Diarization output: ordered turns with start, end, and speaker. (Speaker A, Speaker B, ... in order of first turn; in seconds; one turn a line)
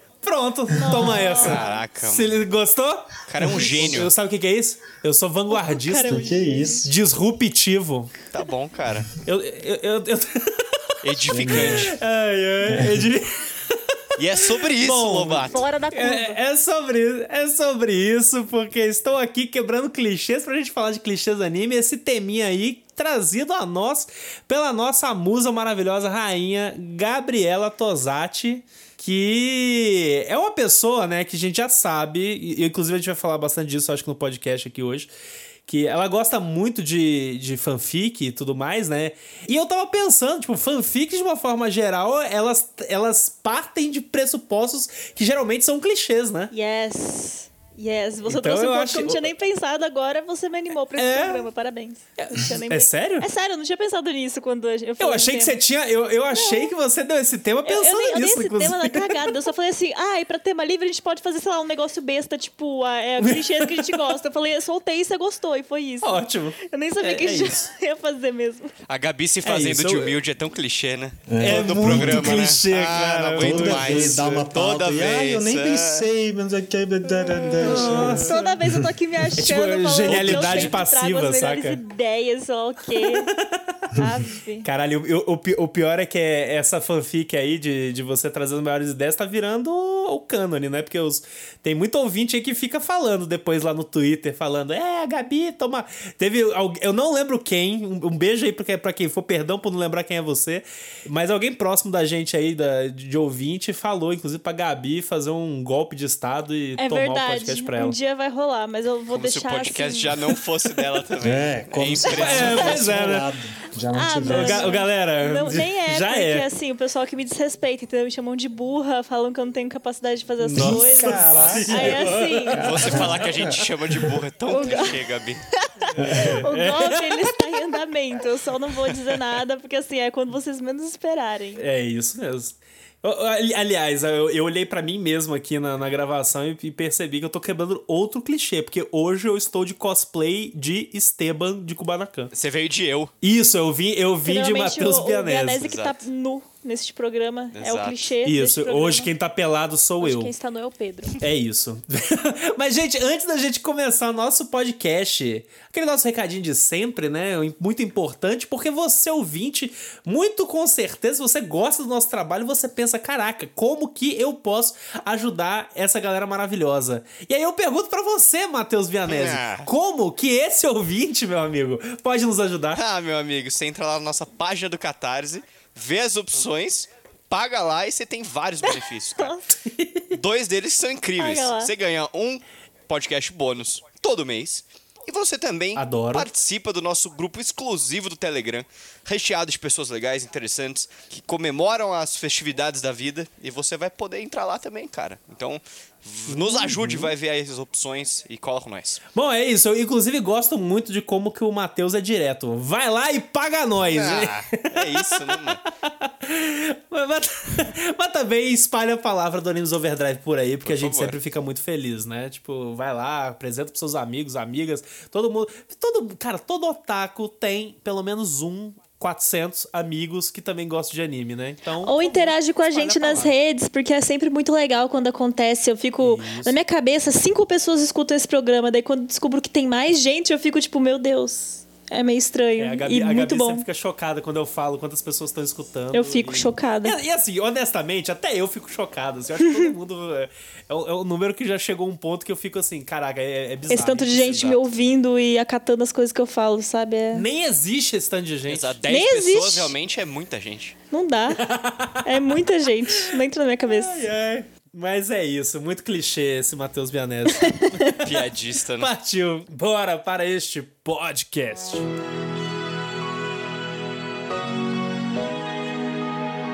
Speaker A: 0.2-6.3
Speaker B: 0.8-1.7
Speaker C: 1.3-2.4
Speaker C: 3.3-4.1
Speaker D: 3.7-3.9
Speaker B: 5.5-6.8
Speaker D: 6.0-6.9
Speaker A: 6.8-8.2
Speaker C: 8.3-9.1
Speaker A: 9.2-10.7
Speaker C: 11.0-11.9
Speaker A: 11.3-35.1
Speaker D: 11.3-11.9
Speaker D: 12.7-13.1
Speaker C: 14.2-15.6
Speaker B: 15.5-16.4
Speaker A: 35.7-46.5
Speaker B: 46.5-55.6
Speaker A: 48.2-49.3
Speaker A: 51.0-51.5
Speaker A: 52.2-53.3
Speaker A: 55.0-59.3
Speaker B: 56.3-56.7
Speaker B: 57.6-68.7
Speaker A: 63.2-64.2
Speaker A: 66.0-67.7
Speaker C: 68.9-76.0
Speaker A: 69.4-70.2
Speaker D: 71.3-72.6
Speaker A: 71.4-74.5
Speaker D: 73.4-79.3
Speaker A: 77.5-78.5
Speaker B: 77.6-83.3
Speaker A: 79.4-81.8
Speaker C: 80.1-80.7
Speaker A: 82.9-83.8
Speaker B: 83.9-84.7
Speaker A: 84.6-108.0
Speaker B: 106.8-110.3
Speaker C: 109.1-113.1
Speaker D: 111.2-114.8
Speaker A: 112.0-113.3
Speaker B: 113.9-123.0
Speaker A: 114.2-116.5
Speaker D: 120.4-124.2
Speaker A: 120.5-123.2
Speaker C: 121.3-125.4
Speaker B: 124.5-125.0
Speaker B: 125.6-131.6
Speaker D: 125.9-126.5
Speaker A: 126.0-127.6
Speaker A: 128.8-129.2
Speaker A: 131.6-142.3
Speaker C: 142.3-143.1
Speaker A: 143.2-145.6
Speaker B: 144.2-149.1
Speaker C: 145.6-146.0
Speaker C: 147.5-148.1
Speaker A: 148.2-150.3
Speaker B: 150.0-151.2
Speaker A: 151.2-172.8
Speaker C: 169.1-169.7
Speaker C: 172.7-179.4
Speaker B: 179.2-179.4
Speaker A: 179.6-180.1
Speaker C: 180.1-199.0
Speaker B: 181.2-181.7
Speaker A: 185.8-186.3
Speaker A: 196.3-197.1
Speaker A: 199.1-223.3
Speaker C: 203.9-205.6
Speaker C: 210.6-211.2
Speaker B: 221.8-233.6
Speaker A: 226.0-226.6
Speaker A: 232.6-244.6
Speaker B: 235.9-237.0
Speaker B: 243.7-247.2
Speaker A: 247.1-248.8
Speaker C: 248.5-250.8
Speaker B: 248.9-249.7
Speaker B: 250.9-251.4
Speaker A: 251.4-252.4
Speaker B: 252.0-254.0
Speaker A: 252.9-261.9
Speaker B: 257.4-257.9
Speaker C: 258.0-258.9